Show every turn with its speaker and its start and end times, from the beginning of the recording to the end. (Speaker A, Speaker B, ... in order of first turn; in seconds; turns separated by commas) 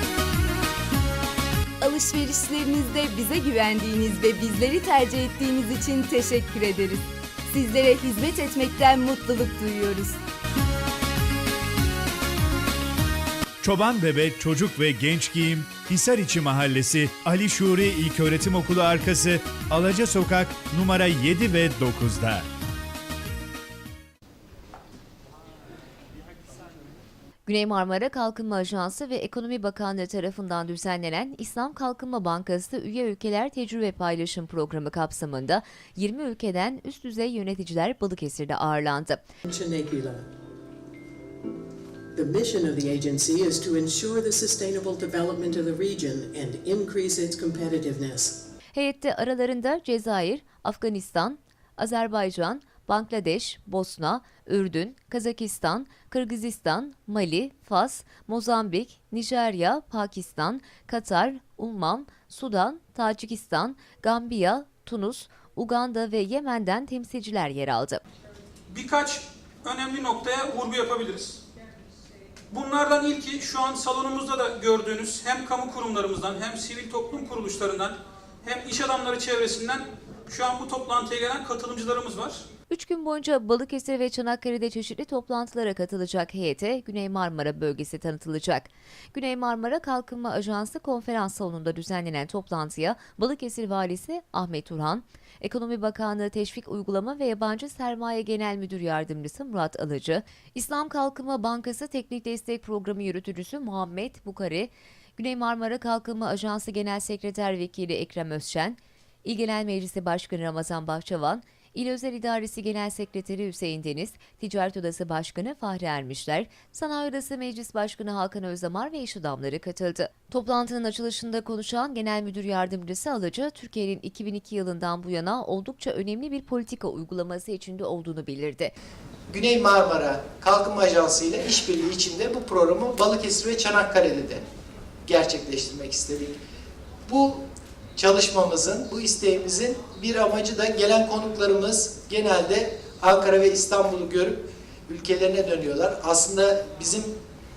Speaker A: 1.8-10.2, Speaker B: 13.6-22.5, Speaker C: 27.5-39.2, Speaker D: 39.5-40.2, Speaker D: 42.2-48.3, Speaker C: 48.7-68.0, Speaker E: 68.7-71.4, Speaker E: 72.5-82.4, Speaker C: 82.7-128.7, Speaker F: 129.3-134.4, Speaker F: 135.1-136.4, Speaker F: 137.1-137.4, Speaker F: 138.0-147.1